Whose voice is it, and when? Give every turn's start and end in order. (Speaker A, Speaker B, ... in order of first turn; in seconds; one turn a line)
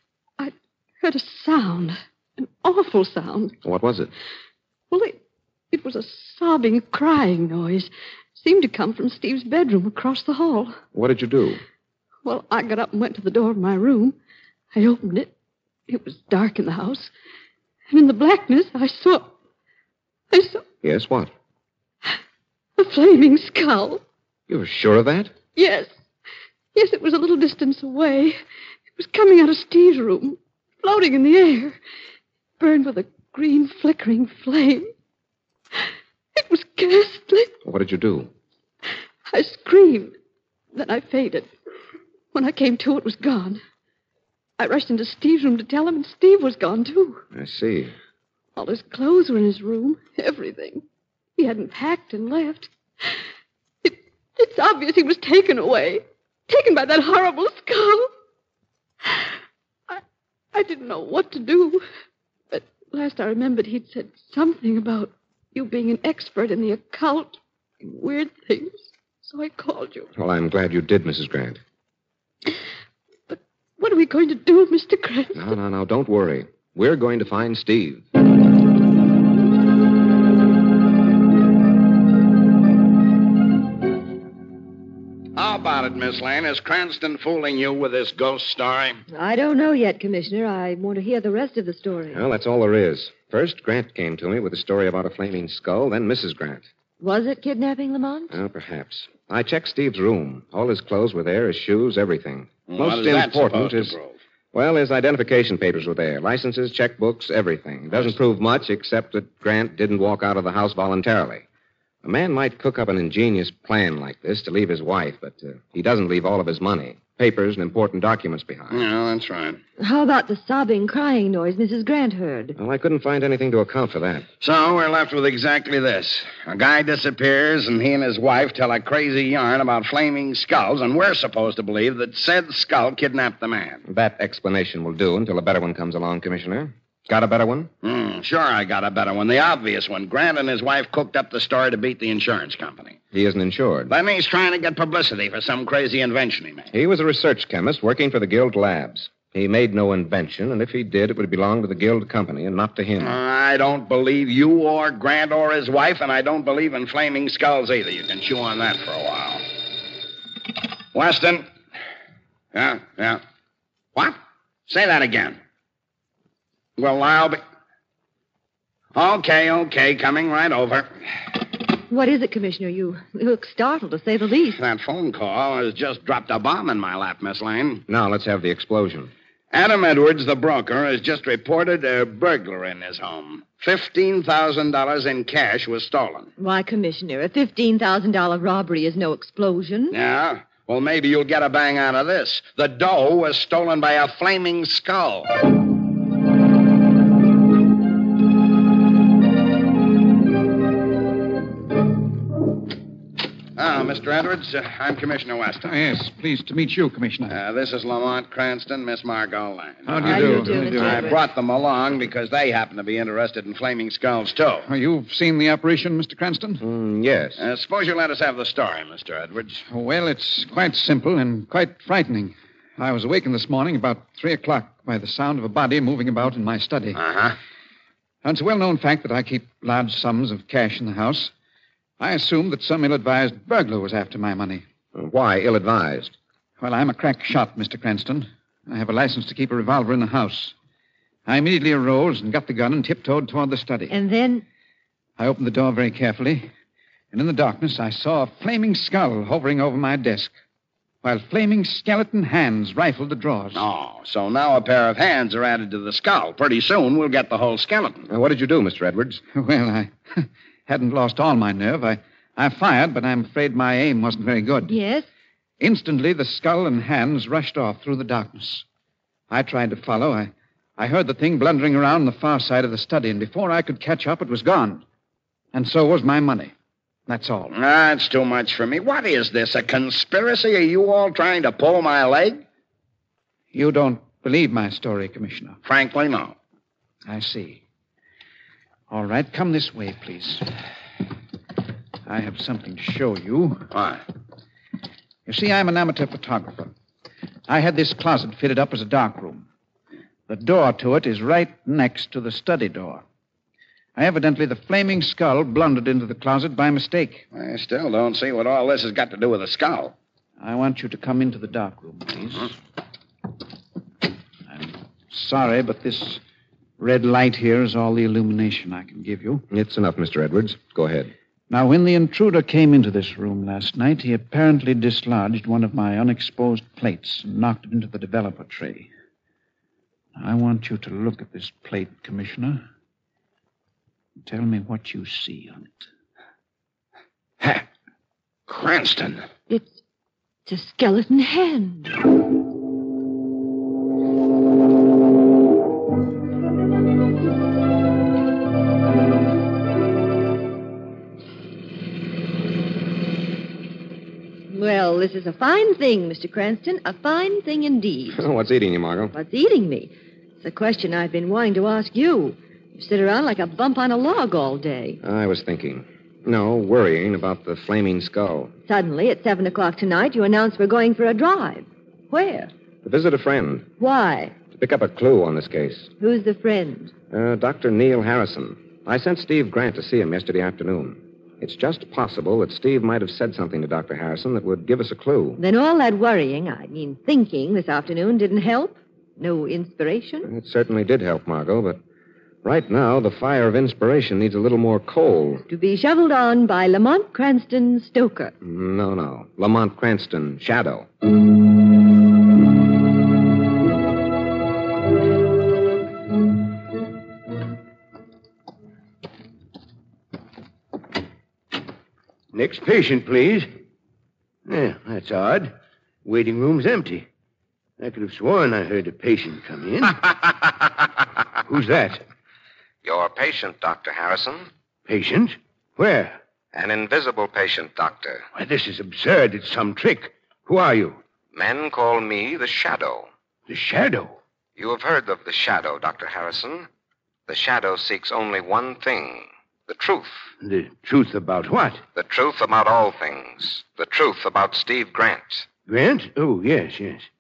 Speaker A: 0.4-3.6
Speaker B: 3.6-4.1
Speaker A: 4.9-5.2
Speaker A: 5.7-10.8
Speaker B: 10.9-11.6
Speaker A: 12.2-14.2
Speaker A: 14.7-15.3
Speaker A: 15.9-17.1
Speaker A: 17.9-19.3
Speaker A: 20.3-20.6
Speaker B: 20.8-21.3
Speaker A: 22.8-24.0
Speaker B: 24.5-25.3
Speaker A: 25.6-25.9
Speaker A: 26.7-28.4
Speaker A: 28.9-31.8
Speaker A: 32.6-34.9
Speaker A: 36.3-37.5
Speaker B: 37.6-38.3
Speaker A: 39.3-40.1
Speaker A: 40.7-41.5
Speaker A: 42.3-43.6
Speaker A: 44.6-47.2
Speaker B: 47.3-47.9
Speaker A: 48.6-50.8
Speaker A: 51.4-52.7
Speaker A: 53.8-58.1
Speaker A: 60.5-61.8
Speaker A: 62.5-70.1
Speaker B: 70.2-71.6
Speaker A: 73.3-75.5
Speaker B: 75.3-78.0
Speaker C: 85.3-89.0
Speaker D: 89.1-92.2
Speaker B: 92.1-96.7
Speaker D: 97.0-98.3
Speaker B: 98.3-104.0
Speaker C: 102.7-104.2
Speaker B: 104.5-111.4
Speaker B: 112.0-118.8
Speaker C: 118.7-119.6
Speaker D: 119.8-122.6
Speaker B: 122.6-124.2
Speaker C: 124.4-133.8
Speaker B: 133.9-137.7
Speaker C: 137.8-143.0
Speaker B: 143.1-143.9
Speaker C: 143.9-146.7
Speaker B: 146.7-153.2
Speaker C: 153.0-159.4
Speaker C: 160.9-161.4
Speaker C: 162.5-163.2
Speaker C: 163.9-165.4
Speaker C: 166.8-167.4
Speaker C: 168.9-170.9
Speaker D: 171.9-174.6
Speaker C: 174.6-177.8
Speaker B: 177.9-179.1
Speaker C: 179.5-186.3
Speaker D: 186.4-190.0
Speaker C: 189.9-195.3
Speaker C: 203.6-205.7
Speaker E: 205.6-207.4
Speaker C: 207.3-214.7
Speaker E: 209.9-211.1
Speaker D: 210.0-211.2
Speaker E: 214.7-216.6
Speaker B: 216.6-217.4
Speaker C: 217.4-219.6
Speaker E: 219.7-227.0
Speaker C: 226.9-227.4
Speaker E: 228.2-231.3
Speaker E: 232.0-234.6
Speaker B: 234.9-236.1
Speaker E: 236.6-240.5
Speaker E: 241.2-243.9
Speaker D: 243.9-244.4
Speaker E: 245.2-246.5
Speaker E: 247.1-250.3
Speaker E: 251.0-253.7
Speaker C: 253.5-258.1
Speaker B: 258.1-259.2
Speaker E: 259.3-264.7
Speaker D: 264.7-265.1
Speaker E: 265.6-268.6
Speaker E: 269.3-274.8
Speaker E: 275.5-276.5
Speaker E: 277.1-277.5
Speaker C: 277.5-282.4
Speaker E: 283.5-285.6
Speaker C: 285.6-286.4
Speaker E: 287.1-287.6
Speaker E: 288.9-290.4
Speaker E: 292.1-293.7
Speaker C: 293.7-294.0
Speaker E: 295.2-296.7
Speaker E: 297.5-299.4
Speaker E: 300.3-303.0
Speaker E: 303.9-307.2
Speaker C: 307.3-309.9
Speaker E: 310.4-312.5
Speaker E: 314.5-316.2
Speaker E: 316.8-319.4
Speaker B: 319.5-321.1
Speaker E: 321.5-328.9
Speaker E: 330.1-332.6
Speaker E: 334.2-335.9
Speaker C: 338.5-339.2
Speaker D: 339.5-339.8
Speaker D: 340.4-341.9
Speaker D: 354.5-358.2
Speaker B: 358.1-359.1
Speaker D: 359.1-365.0
Speaker B: 365.0-368.5
Speaker D: 368.7-372.5
Speaker B: 372.8-373.7
Speaker D: 373.8-374.4
Speaker B: 374.5-375.9
Speaker D: 376.0-376.9
Speaker B: 377.1-385.4
Speaker D: 385.4-390.3
Speaker B: 390.2-391.8
Speaker B: 392.4-395.4
Speaker D: 395.5-398.3
Speaker B: 398.4-400.9
Speaker F: 412.3-413.5
Speaker F: 414.5-415.5
Speaker F: 416.0-417.1
Speaker F: 417.8-420.1
Speaker F: 421.4-422.0
Speaker B: 422.8-424.5
Speaker F: 424.9-426.2
Speaker B: 426.5-428.2
Speaker F: 428.4-431.0
Speaker B: 431.3-433.1
Speaker F: 433.5-434.1
Speaker B: 434.6-436.7
Speaker B: 437.3-440.3
Speaker F: 440.4-441.8
Speaker B: 441.9-445.5
Speaker F: 445.7-447.1